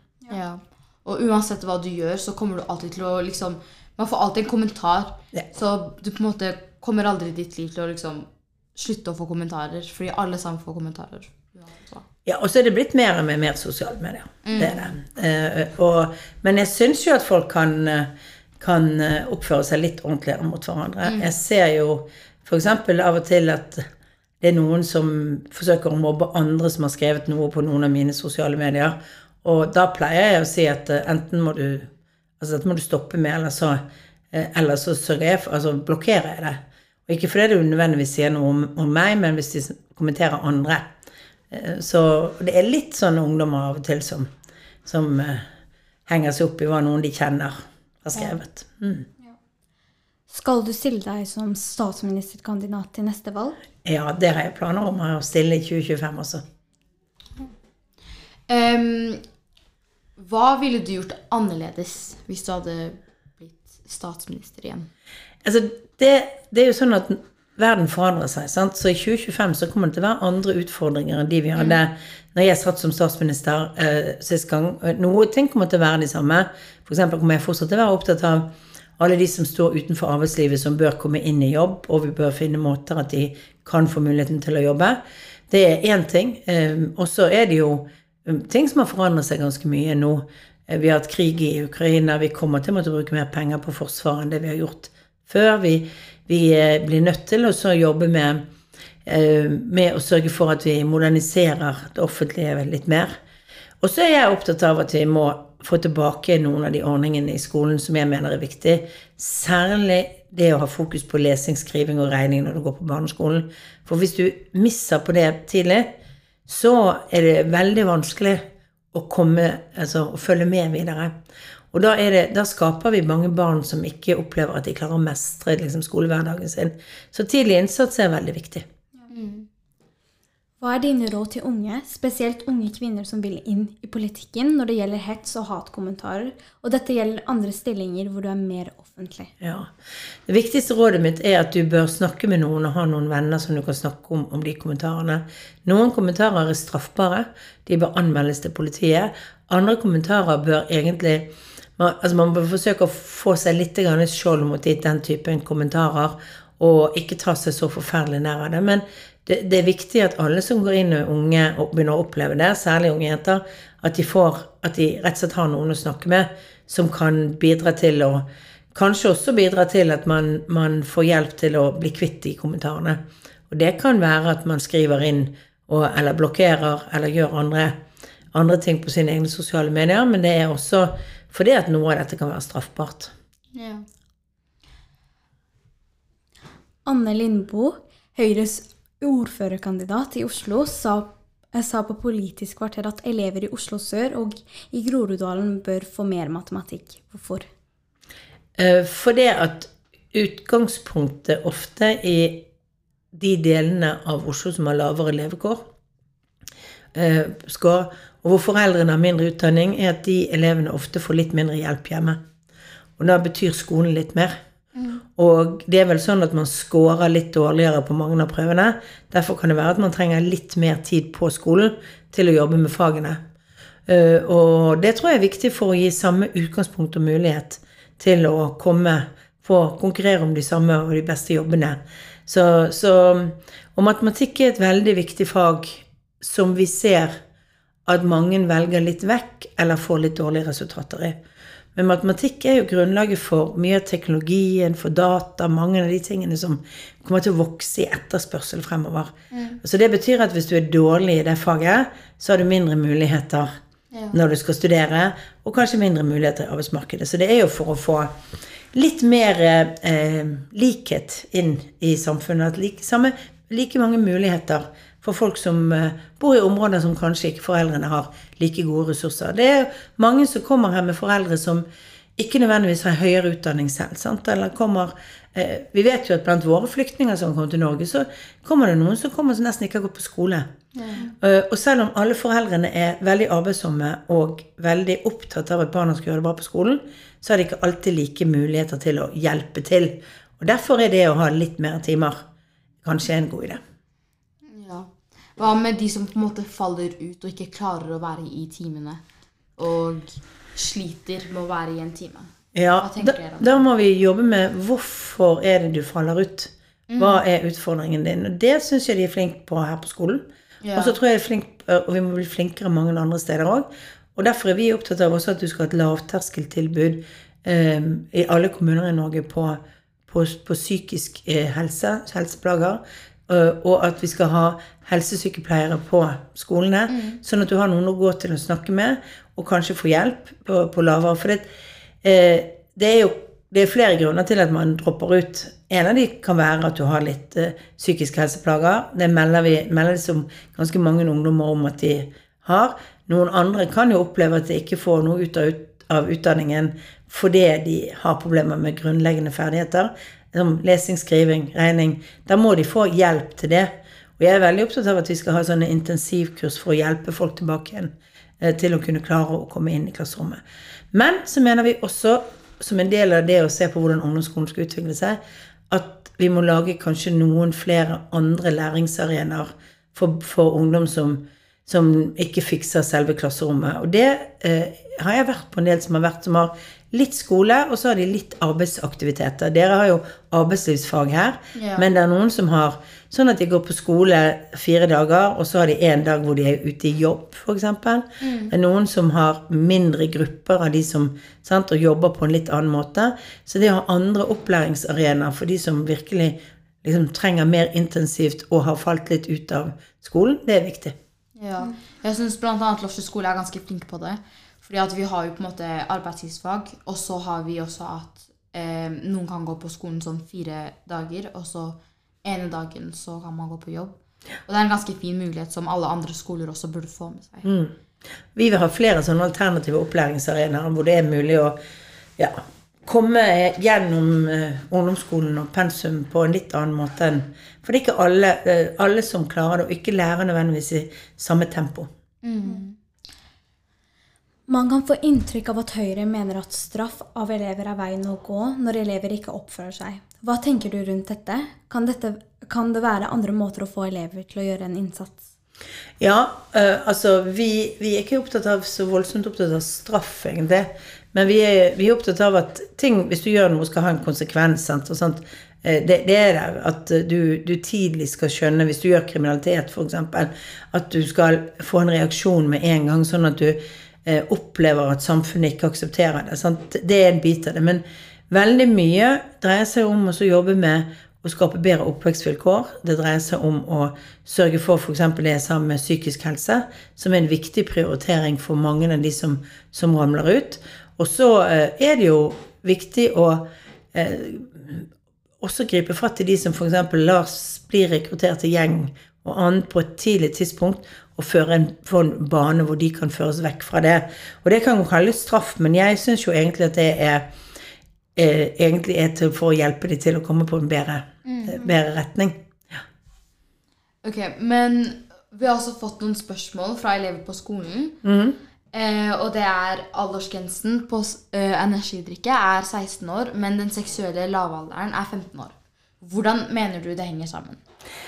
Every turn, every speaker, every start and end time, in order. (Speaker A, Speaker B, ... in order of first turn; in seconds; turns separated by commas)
Speaker A: 0.3-12.1, Speaker B: 12.2-23.9, Speaker A: 14.4-14.9, Speaker A: 21.0-21.3, Speaker B: 24.4-33.8, Speaker B: 34.3-40.9, Speaker B: 41.5-44.3, Speaker B: 44.9-45.4, Speaker B: 46.0-49.0, Speaker C: 50.3-53.6, Speaker B: 53.8-56.4, Speaker A: 58.5-59.2, Speaker A: 60.2-64.9, Speaker B: 65.4-98.4, Speaker B: 99.0-103.2, Speaker B: 103.8-115.9, Speaker B: 116.5-121.1, Speaker B: 121.7-128.7, Speaker A: 129.1-129.5, Speaker C: 130.6-139.3, Speaker B: 139.4-139.7, Speaker B: 140.3-177.8, Speaker B: 178.3-183.1, Speaker A: 183.5-183.9, Speaker C: 186.8-197.5, Speaker B: 198.6-202.5, Speaker B: 203.1-205.6, Speaker B: 206.9-212.2, Speaker B: 213.0-214.4, Speaker A: 214.7-215.0, Speaker B: 215.1-223.2, Speaker B: 223.8-237.2, Speaker B: 237.8-241.2, Speaker B: 241.7-253.5, Speaker A: 249.3-249.6, Speaker A: 253.9-254.2, Speaker B: 254.1-258.1, Speaker B: 258.7-271.6, Speaker B: 272.2-280.5, Speaker A: 280.7-281.0, Speaker B: 281.1-292.2, Speaker B: 292.8-293.6, Speaker A: 294.4-299.0, Speaker A: 299.6-303.6, Speaker B: 302.5-331.5, Speaker A: 306.9-307.2, Speaker A: 310.6-310.9, Speaker A: 326.9-327.2, Speaker B: 332.0-360.4, Speaker B: 360.9-365.2, Speaker B: 365.7-400.9, Speaker A: 381.5-381.9, Speaker A: 388.2-388.5, Speaker A: 401.4-417.5, Speaker B: 417.4-417.7, Speaker B: 418.3-421.6, Speaker B: 422.2-431.9, Speaker A: 432.2-432.8, Speaker C: 434.5-445.3, Speaker B: 446.0-484.9, Speaker B: 485.4-497.3, Speaker B: 498.1-502.4, Speaker A: 501.2-501.6, Speaker A: 504.0-508.0, Speaker B: 508.0-508.4, Speaker A: 508.7-517.6